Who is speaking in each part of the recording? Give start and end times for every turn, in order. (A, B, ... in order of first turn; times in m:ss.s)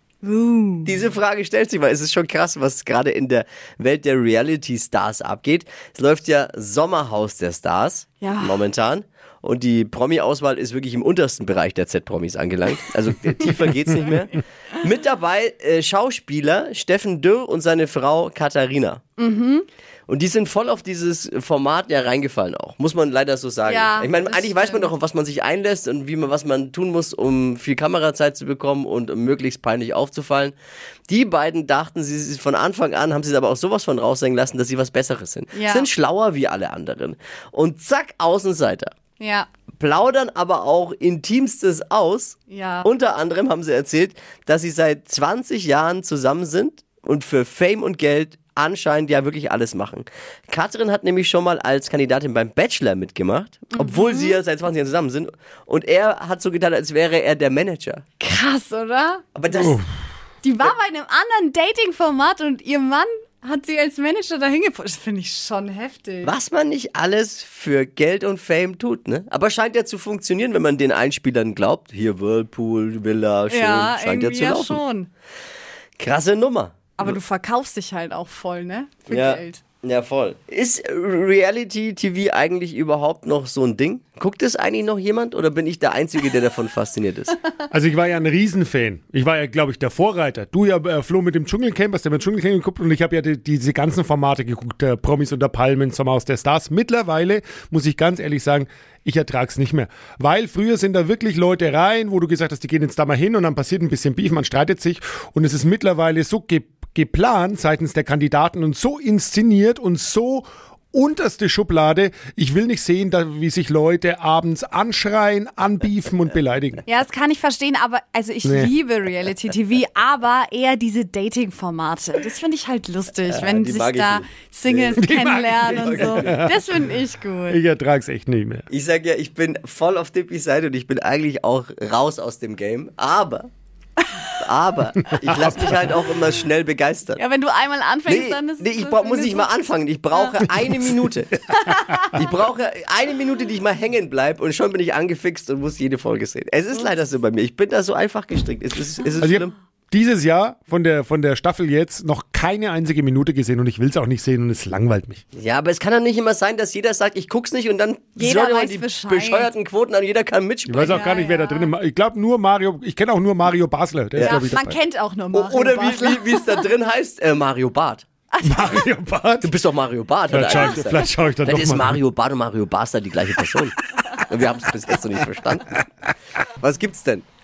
0:00.2-0:00.9 A
0:00.8-0:19.0 B
0:08.2-0:08.6 A
0:19.2-0:19.6 A
0:20.1-0:30.6 B
0:23.7-0:24.9 A
0:31.1-0:38.9 B
0:35.5-0:35.9 A
0:39.2-0:39.5 A
0:39.8-0:58.0 B
0:42.5-0:42.9 A
0:53.7-0:54.4 A
0:58.2-0:59.2 A
0:59.4-0:59.8 B
1:00.4-1:06.3 A
1:06.2-1:14.8 B
1:13.5-1:15.1 A
1:16.0-1:17.2 B
1:17.0-1:19.6 A
1:19.1-1:27.4 B
1:27.7-1:56.8 C
1:56.9-2:07.6 A
1:58.4-1:58.7 C
2:03.3-2:06.4 B
2:05.0-2:06.7 C
2:07.5-2:08.6 C
2:08.7-2:13.5 B
2:14.4-2:17.2 B
2:15.1-2:15.8 C
2:17.2-2:19.5 A
2:18.1-2:21.3 B
2:21.6-2:22.2 A
2:22.2-2:29.5 B
2:29.2-2:35.2 C
2:35.4-2:41.1 B
2:38.2-2:39.5 A
2:40.7-2:44.8 C
2:40.9-2:41.7 A
2:44.2-2:44.5 B
2:44.2-2:46.5 A
2:45.3-2:48.1 B
2:48.3-2:48.9 A
2:48.4-2:49.6 C
2:49.4-2:53.7 B
2:50.3-2:52.0 C
2:54.3-2:55.7 B
2:56.6-2:57.2 B